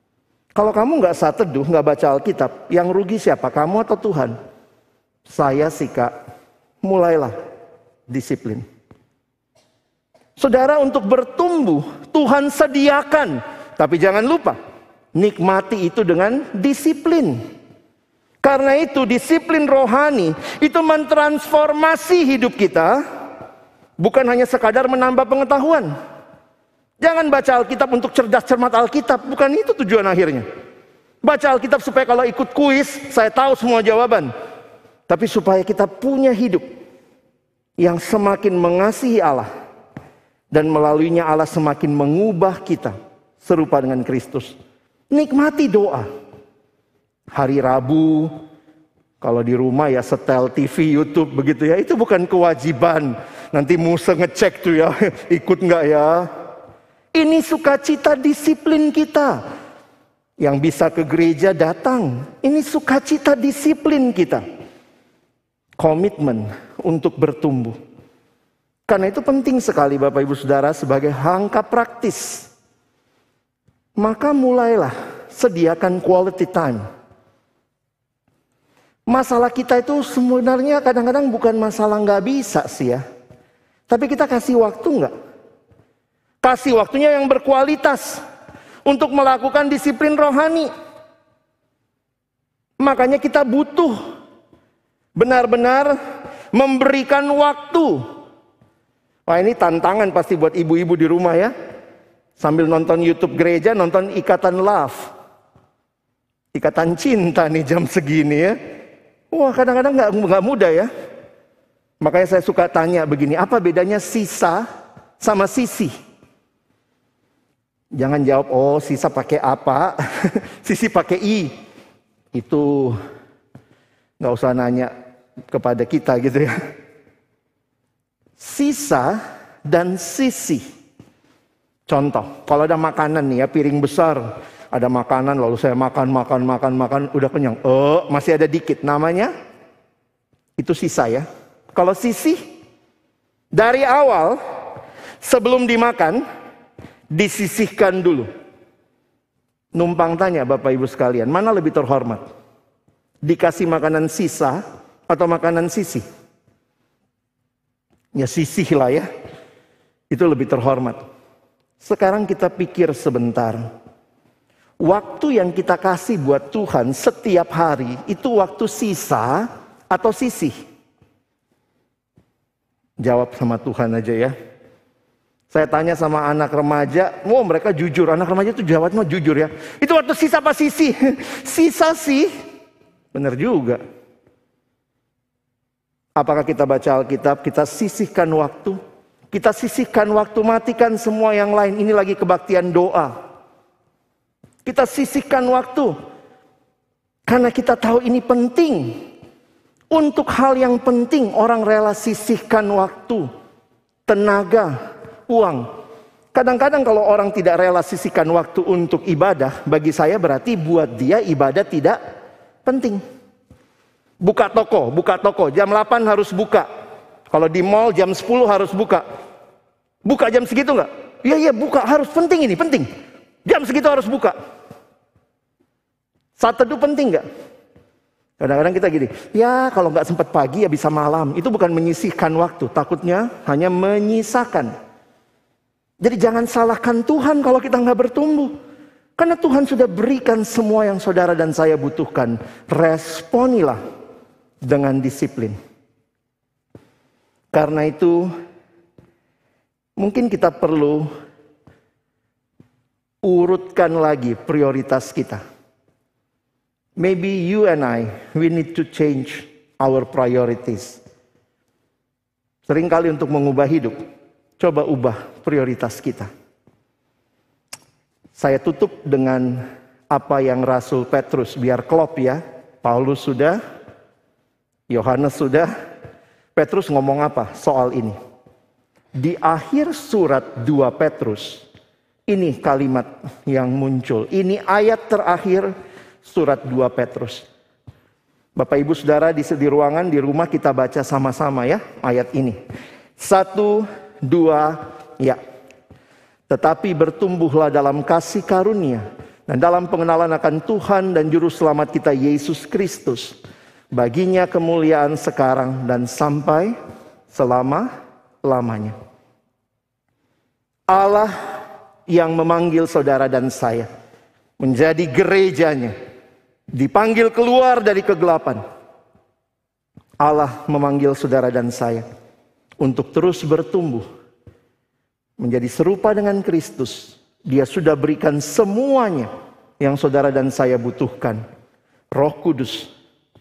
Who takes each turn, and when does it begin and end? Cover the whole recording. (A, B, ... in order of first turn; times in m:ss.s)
0:00.6-0:04.4 A
0:05.3-0:06.1 A
0:06.8-0:07.4 A
0:08.1-0:08.6 A
0:10.4-0:14.6 A
0:15.2-0:17.4 A
0:18.4-0:23.0 A
0:24.0-0:25.9 A
0:27.0-0:30.4 A
0:31.2-0:34.3 A
0:35.1-0:36.6 A
0:37.8-0:39.5 A
0:40.5-0:44.6 A
0:45.1-0:46.1 A
0:47.3-0:48.3 A
0:49.2-0:56.3 A
0:57.2-0:59.4 A
1:00.4-1:04.4 A
1:05.8-1:07.8 A
1:08.9-1:12.5 A
1:14.0-1:16.8 A
1:19.1-1:23.0 A
1:23.9-1:25.1 A
1:26.4-1:28.2 A
1:28.9-1:30.7 A
1:32.8-1:34.0 A
1:35.2-1:36.0 A
1:36.5-1:38.0 A
1:39.3-1:41.5 A
1:42.4-1:45.1 A
1:46.5-1:48.6 A
1:49.3-1:50.9 A
1:52.0-1:54.7 A
1:55.2-1:55.9 A
1:58.0-2:01.5 A
2:02.3-2:03.0 A
2:04.2-2:04.9 A
2:05.5-2:06.6 A
2:08.4-2:10.6 A
2:11.9-2:19.3 A
2:20.6-2:22.4 A
2:23.5-2:24.4 A
2:25.2-2:26.2 A
2:27.1-2:28.3 A
2:29.7-2:32.2 A
2:33.2-2:36.0 A
2:38.2-2:39.1 A
2:40.1-2:41.0 A
2:41.8-2:43.6 A
2:44.8-2:50.6 A
2:53.0-2:54.3 A
2:55.5-3:02.3 A
3:03.1-3:03.8 A
3:06.2-3:08.8 A
3:09.3-3:13.2 A
3:14.6-3:15.9 A
3:17.3-3:19.0 A
3:19.9-3:23.3 A
3:24.1-3:24.8 A
3:25.3-3:25.6 A
3:26.3-3:32.0 A
3:32.6-3:33.0 A
3:34.2-3:36.7 A
3:37.3-3:39.0 A
3:40.0-3:42.9 A
3:43.5-3:44.4 A
3:46.4-3:47.2 A
3:48.4-3:54.7 A
3:56.0-3:58.5 A
3:59.2-4:03.8 A
4:04.6-4:05.6 A
4:07.5-4:08.3 A
4:10.0-4:11.1 A
4:13.2-4:15.4 A
4:17.0-4:21.0 A
4:22.7-4:24.0 A
4:24.6-4:26.3 A
4:28.4-4:33.6 A
4:34.9-4:35.7 A
4:36.6-4:38.2 A
4:39.2-4:41.7 A
4:42.3-4:45.7 A
4:46.2-4:47.5 A
4:48.6-4:52.6 A
4:53.2-4:55.4 A
4:56.5-5:03.4 A
5:03.9-5:06.8 A
5:07.3-5:07.9 A
5:08.4-5:09.0 A
5:10.9-5:11.6 A
5:12.1-5:13.9 A
5:14.6-5:15.9 A
5:16.7-5:18.6 A
5:20.2-5:22.0 A
5:22.8-5:24.0 A
5:25.4-5:31.4 A
5:32.1-5:32.9 A